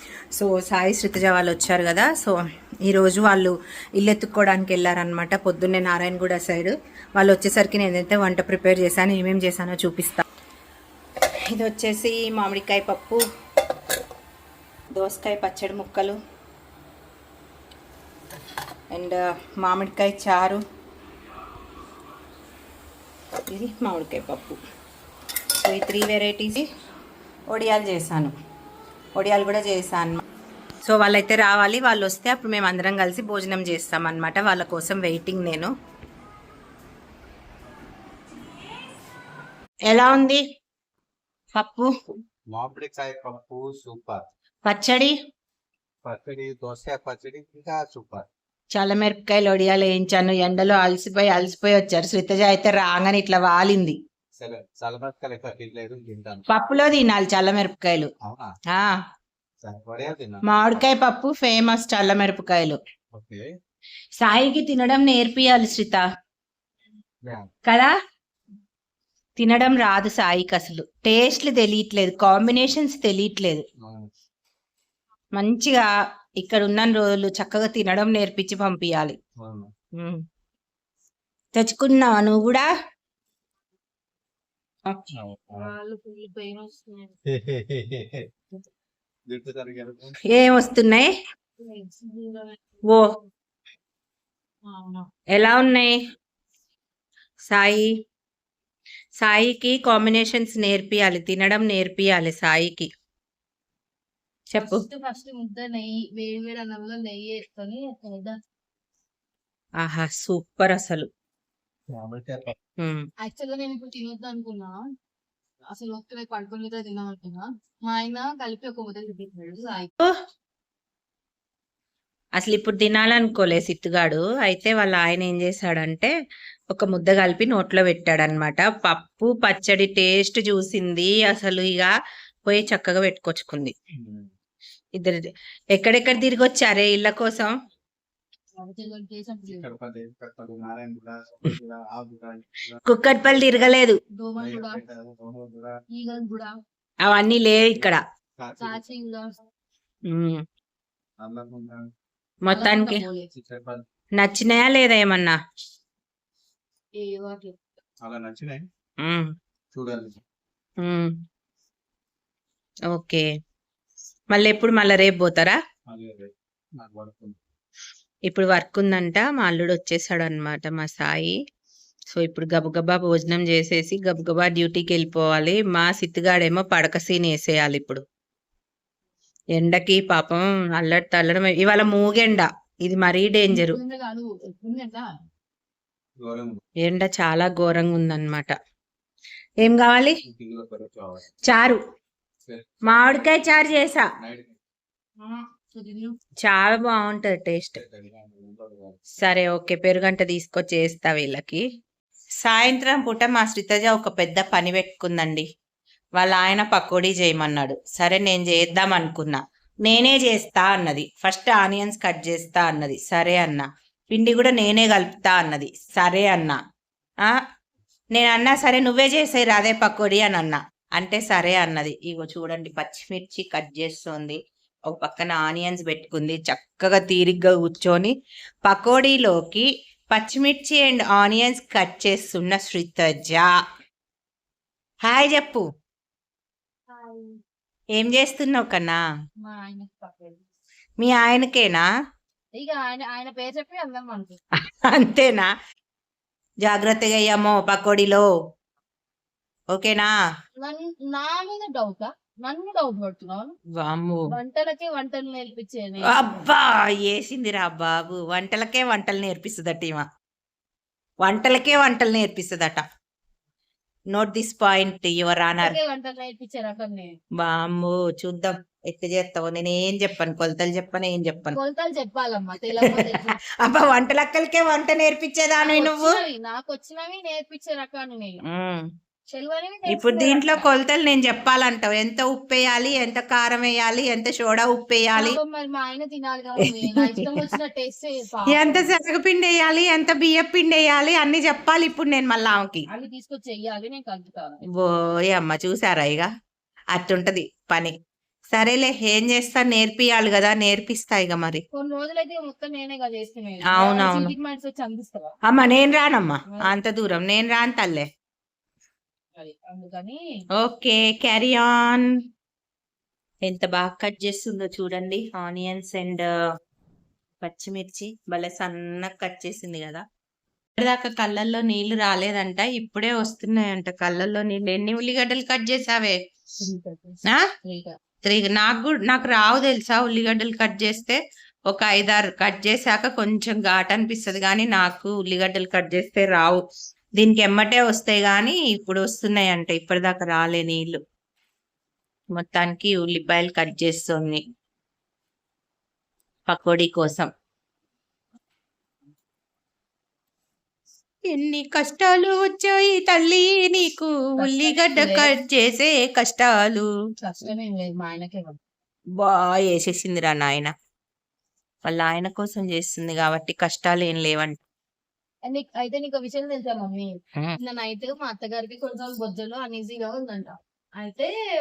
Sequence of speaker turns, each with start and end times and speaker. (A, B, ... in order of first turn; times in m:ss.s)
0:00.4-0:10.2 A
0:11.5-0:13.2 A
0:14.9-0:16.2 A
0:18.9-0:20.6 A
0:23.5-0:24.6 A
0:25.6-0:26.6 A
0:27.5-0:28.3 A
0:29.2-0:30.2 A
0:30.8-0:35.7 A
0:39.8-0:40.4 A
0:41.5-0:41.9 A
0:42.5-0:44.3 B
0:44.6-0:45.1 A
0:46.0-0:48.3 B
0:48.7-0:54.0 A
0:54.4-0:56.4 B
0:56.5-0:58.1 A
0:58.2-0:58.5 B
0:58.7-0:59.0 A
0:59.6-1:00.4 B
1:00.4-1:02.8 A
1:03.1-1:03.5 B
1:04.2-1:06.0 A
1:07.2-1:07.5 B
1:07.6-1:07.9 A
1:09.4-1:13.6 A
1:15.4-1:15.9 A
1:16.4-1:19.2 A
1:19.4-1:19.7 B
1:21.5-1:22.7 A
1:25.1-1:25.7 B
1:25.5-1:27.1 C
1:27.2-1:28.3 B
1:29.3-1:30.1 B
1:30.3-1:31.1 A
1:31.6-1:32.6 C
1:34.6-1:35.0 C
1:35.3-1:36.0 A
1:37.5-1:37.9 A
1:39.2-1:42.9 A
1:44.5-1:44.8 A
1:44.6-1:48.4 C
1:49.8-1:51.1 A
1:51.9-1:52.5 B
1:52.8-1:53.0 A
1:53.2-1:54.8 C
1:55.7-1:59.9 C
2:02.4-2:06.1 A
2:06.7-2:11.9 A
2:12.5-2:13.7 A
2:14.0-2:14.3 B
2:15.7-2:17.5 A
2:18.6-2:19.7 C
2:19.5-2:23.6 B
2:22.8-2:24.0 A
2:24.2-2:24.8 C
2:24.4-2:25.8 B
2:25.9-2:26.5 C
2:27.0-2:28.0 A
2:28.4-2:28.8 B
2:28.6-2:29.3 C
2:30.1-2:30.4 A
2:31.2-2:31.9 B
2:32.4-2:33.0 A
2:32.5-2:33.3 C
2:33.3-2:33.8 B
2:34.2-2:35.3 A
2:37.0-2:37.5 C
2:38.0-2:38.6 B
2:39.0-2:39.3 A
2:39.7-2:40.2 B
2:40.8-2:41.1 A
2:42.9-2:43.2 A
2:44.3-2:45.6 A
2:45.9-2:47.4 B
2:48.3-2:51.3 A
2:52.1-2:58.0 A
2:59.6-3:03.8 A
3:03.5-3:05.1 C
3:06.2-3:06.6 B
3:06.8-3:08.5 A
3:09.6-3:10.2 A
3:10.3-3:11.3 B
3:11.4-3:11.8 A
3:12.5-3:13.6 B
3:12.8-3:14.0 A
3:14.2-3:14.5 B
3:15.2-3:16.1 C
3:16.4-3:17.8 A
3:17.7-3:19.0 B
3:19.2-3:21.6 A
3:22.4-3:25.4 A
3:26.2-3:36.6 A
3:38.1-3:48.1 A
3:48.6-3:53.5 A
3:55.0-3:55.6 A
3:56.9-3:57.4 C
3:58.0-3:59.0 A
3:59.4-4:00.4 C
4:01.0-4:01.8 A
4:02.5-4:04.4 C
4:04.7-4:05.5 A
4:06.6-4:08.3 A
4:09.7-4:10.1 A
4:10.6-4:13.5 C
4:13.8-4:14.3 A
4:14.3-4:16.1 C
4:16.0-4:20.0 A
4:21.2-4:22.8 A
4:24.1-4:25.8 A
4:25.6-4:27.1 C
4:27.4-4:31.6 A
4:31.5-4:33.4 C
4:33.6-4:36.2 A
4:35.6-4:38.4 C
4:38.5-4:38.9 A
4:39.3-4:40.7 C
4:39.9-4:45.4 A
4:45.1-4:48.9 C
4:46.6-4:47.4 A
4:48.5-4:52.9 A
4:52.9-4:54.6 C
4:54.8-4:56.3 A
4:56.9-4:57.9 A
4:58.5-5:01.6 A
5:01.7-5:05.3 C
5:03.7-5:04.3 A
5:05.5-5:08.0 A
5:09.4-5:10.2 C
5:10.6-5:12.1 A
5:13.4-5:16.3 A
5:17.4-5:20.0 A
5:20.8-5:26.2 A
5:26.6-5:28.0 C
5:28.2-5:31.2 A
5:31.7-5:36.6 A
5:37.2-5:41.0 A
5:42.4-5:44.4 A
5:46.5-5:47.3 A
5:51.3-5:56.9 A
5:54.4-5:55.3 C
5:57.2-5:58.6 C
5:59.2-6:00.7 A
6:01.8-6:04.6 A
6:05.4-6:11.3 C